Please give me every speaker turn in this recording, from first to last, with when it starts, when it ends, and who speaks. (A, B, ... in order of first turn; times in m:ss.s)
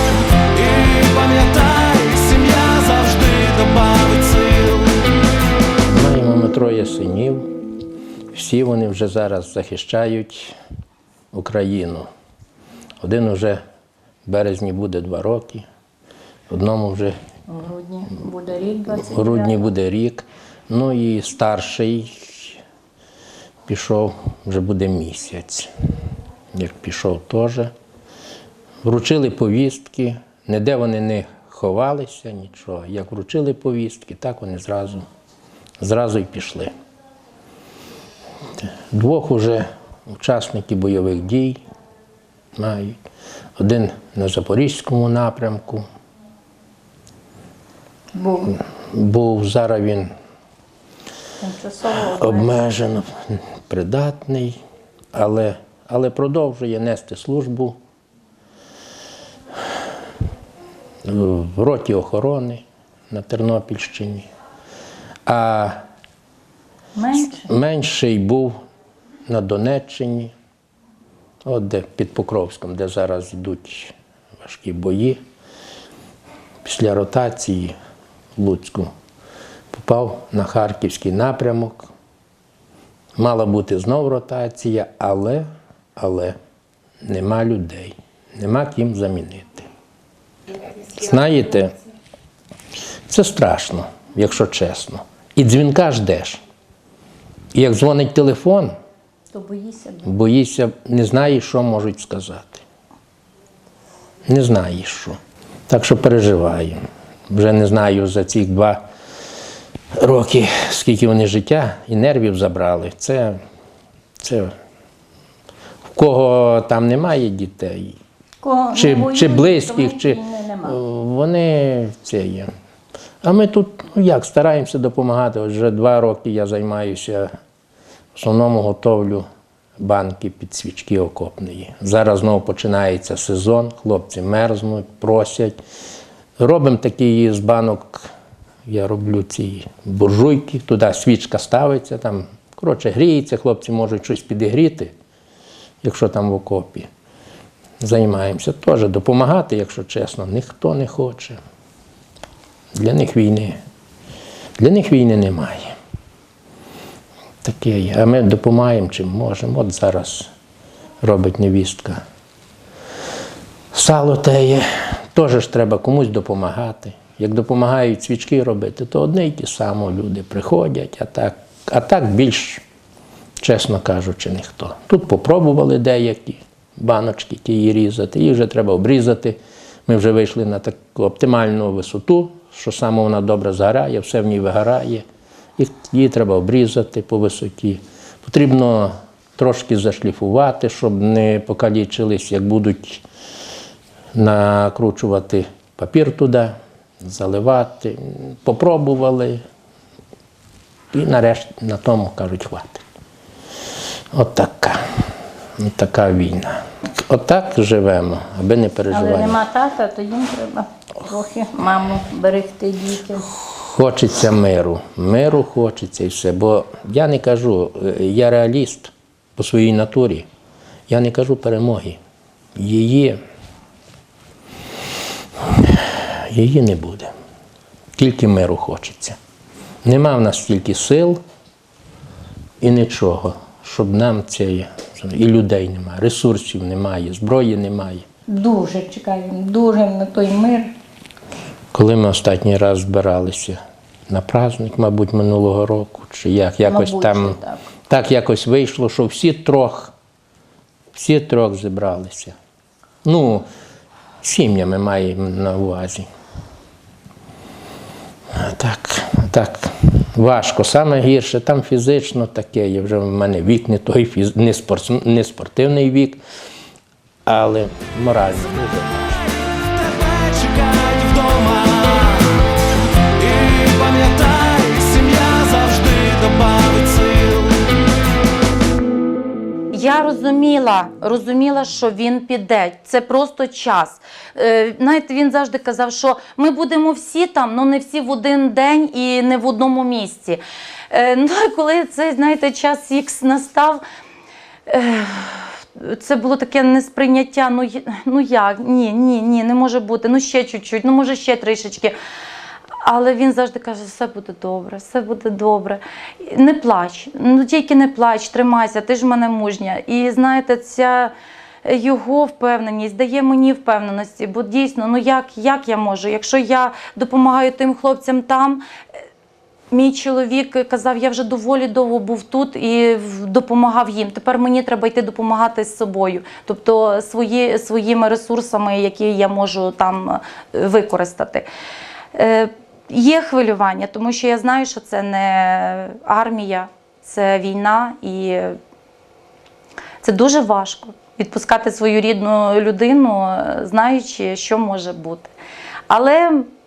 0:00.5-0:05.2 A
0:05.9-0:07.5 B
0:08.3-0:10.6 B
0:11.3-0:12.1 B
0:13.0-0:13.6 B
0:14.2-0:15.6 B
0:16.5-0:17.2 B
0:17.5-0:19.6 C
0:18.9-0:22.6 B
0:23.7-0:25.7 B
0:26.5-0:27.7 B
0:28.8-0:35.1 B
0:35.8-0:36.7 B
0:38.9-0:41.6 B
0:42.6-0:43.0 B
0:43.6-0:45.9 B
0:48.2-0:48.6 C
0:48.5-0:50.1 B
0:51.4-0:52.5 C
0:52.0-0:54.6 B
0:55.1-0:57.8 B
1:01.0-1:04.3 B
1:05.3-1:05.8 B
1:07.1-1:08.6 B
1:09.3-1:10.3 B
1:11.4-1:15.2 B
1:16.6-1:17.8 B
1:18.4-1:18.9 B
1:19.7-1:21.9 B
1:23.2-1:25.4 B
1:26.0-1:26.4 B
1:27.0-1:29.7 B
1:30.8-1:31.8 B
1:33.1-1:36.4 B
1:37.5-1:38.7 B
1:39.3-1:40.1 C
1:40.0-1:42.6 B
1:44.3-1:45.2 B
1:45.7-1:46.8 B
1:47.3-1:48.8 B
1:50.0-1:53.4 B
1:54.2-1:54.5 B
1:55.9-1:58.0 B
1:58.4-2:00.8 C
1:58.7-2:02.5 B
2:03.2-2:07.3 B
2:08.2-2:09.2 B
2:09.8-2:15.6 B
2:16.4-2:18.1 B
2:18.7-2:24.9 B
2:25.8-2:26.9 B
2:27.8-2:31.4 B
2:32.8-2:33.6 B
2:34.6-2:35.8 B
2:37.4-2:40.3 B
2:41.0-2:42.0 B
2:43.7-2:52.6 B
2:53.4-3:05.0 B
3:05.6-3:13.0 B
3:14.2-3:19.4 B
3:20.9-3:22.8 B
3:24.1-3:24.8 B
3:25.6-3:29.4 B
3:28.9-3:33.2 C
3:33.4-3:40.2 B
3:40.9-3:42.0 B
3:42.6-3:43.2 B
3:45.4-3:47.1 B
3:48.0-3:49.2 B
3:49.8-3:51.2 B
3:52.6-3:58.0 B
3:58.3-4:00.7 C
4:01.7-4:09.9 B
4:06.6-4:07.6 C
4:10.9-4:12.3 B
4:13.0-4:13.5 B
4:14.2-4:16.1 B
4:18.3-4:26.2 B
4:27.2-4:29.1 B
4:29.4-4:32.4 A
4:33.2-4:37.8 A
4:39.7-4:53.8 D
4:54.7-5:01.9 D
5:02.8-5:11.1 D
5:11.6-5:18.6 D
5:19.7-5:31.4 D
5:32.1-5:38.6 D
5:40.0-5:45.3 D
5:45.9-5:46.5 D